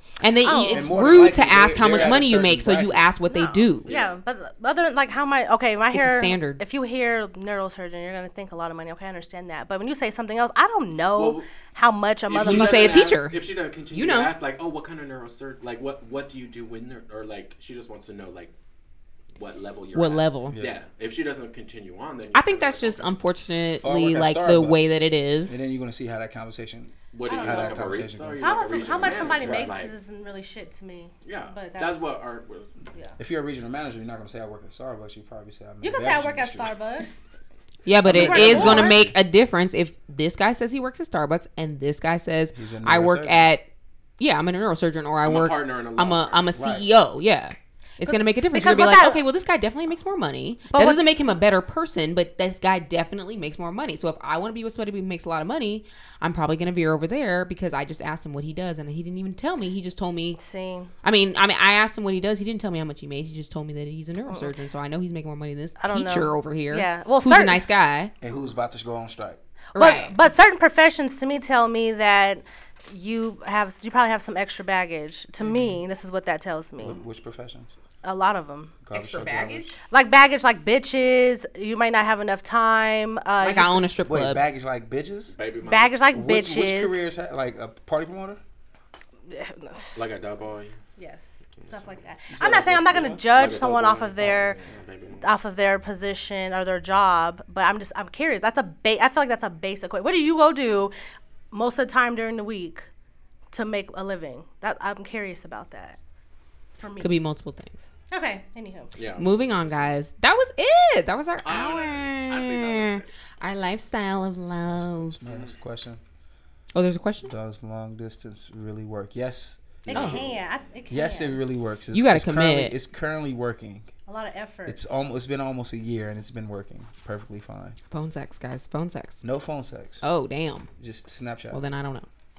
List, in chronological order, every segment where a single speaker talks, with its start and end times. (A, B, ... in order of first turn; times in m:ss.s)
0:00.2-0:03.9 A
0:00.4-0:01.3 B
0:00.7-0:03.1 C
0:03.3-0:13.2 B
0:03.9-0:04.2 D
0:05.9-0:06.6 A
0:11.2-0:11.5 D
0:12.3-0:18.5 D
0:12.4-0:14.3 A
0:19.4-0:23.2 D
0:19.9-0:20.6 A
0:20.5-0:20.8 C
0:22.3-0:25.6 A
0:23.8-0:29.8 C
0:27.1-0:30.0 D
0:27.2-0:32.1 B
0:31.2-0:32.7 D
0:33.2-0:36.8 C
0:35.8-0:37.3 B
0:37.9-0:43.7 A
0:38.0-0:39.2 C
0:38.1-0:39.0 B
0:42.6-0:43.5 C
0:44.2-1:00.4 A
0:45.2-0:46.5 D
0:46.6-0:46.9 C
0:48.0-0:49.2 B
0:50.7-0:51.0 B
1:00.4-1:00.9 B
1:01.0-1:08.1 A
1:05.8-1:07.6 B
1:08.2-1:09.4 C
1:09.8-1:10.1 A
1:09.8-1:17.0 B
1:15.4-1:15.8 A
1:16.8-1:17.7 C
1:18.0-1:18.8 B
1:18.8-1:19.7 C
1:18.9-1:19.8 A
1:19.9-1:23.9 B
1:23.4-1:24.5 A
1:24.0-1:25.4 C
1:25.3-1:26.0 D
1:25.6-1:27.1 B
1:26.1-1:28.4 C
1:29.3-1:30.0 B
1:30.0-1:30.8 D
1:30.8-1:34.6 B
1:32.4-1:35.3 D
1:32.4-1:33.1 C
1:34.2-1:34.7 C
1:35.2-1:40.9 B
1:41.5-1:42.9 B
1:43.5-1:46.0 B
1:46.7-1:47.2 B
1:47.0-1:47.8 A
1:48.1-1:48.9 B
1:49.0-1:49.9 D
1:49.2-1:55.2 A
1:51.4-1:53.1 D
1:54.8-1:56.0 C
1:55.2-1:55.5 D
1:56.7-1:57.3 A
1:57.2-2:00.2 C
1:59.8-2:00.4 D
1:59.9-2:00.2 A
1:59.9-2:01.4 B
2:00.9-2:03.9 C
2:01.9-2:02.8 A
2:04.1-2:05.0 B
2:04.7-2:07.8 C
2:07.9-2:09.2 A
2:09.2-2:10.0 C
2:10.0-2:10.7 A
2:10.8-2:11.6 C
2:11.5-2:12.1 A